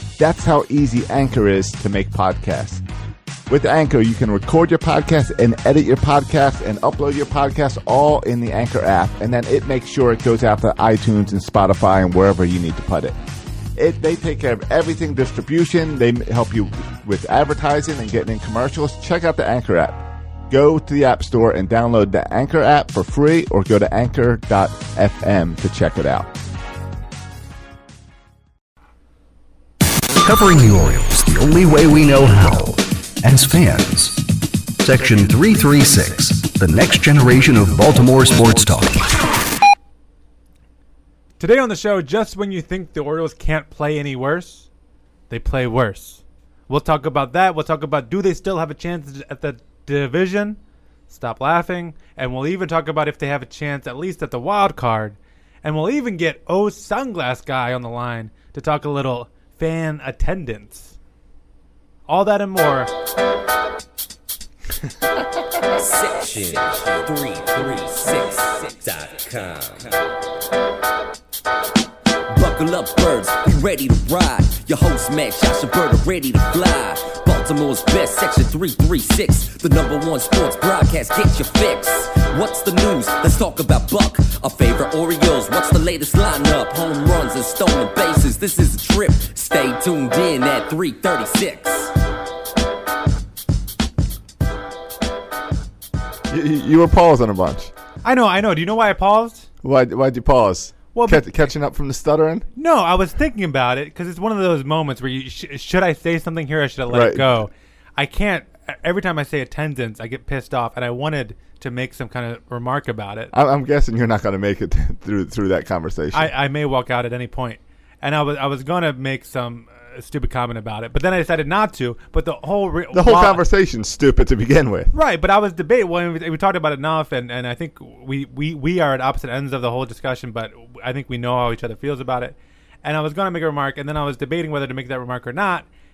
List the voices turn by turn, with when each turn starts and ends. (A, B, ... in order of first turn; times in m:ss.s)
0:00.2-0:02.8 A
0:03.5-0:13.2 A
0:13.8-0:26.3 A
0:30.2-0:34.3 B
0:34.8-0:39.1 B
0:41.4-0:44.7 C
0:45.3-0:50.6 C
0:51.1-1:00.9 C
1:02.1-1:02.9 C
1:05.8-1:10.1 D
1:12.3-1:31.9 D
1:36.3-1:37.7 A
1:38.0-1:39.5 C
1:39.6-1:42.5 A
1:41.0-1:41.4 C
1:42.6-1:53.3 C
1:46.9-1:47.4 A
1:53.3-1:56.3 A
1:56.1-2:03.4 C
2:02.9-2:04.9 A
2:04.9-2:15.7 C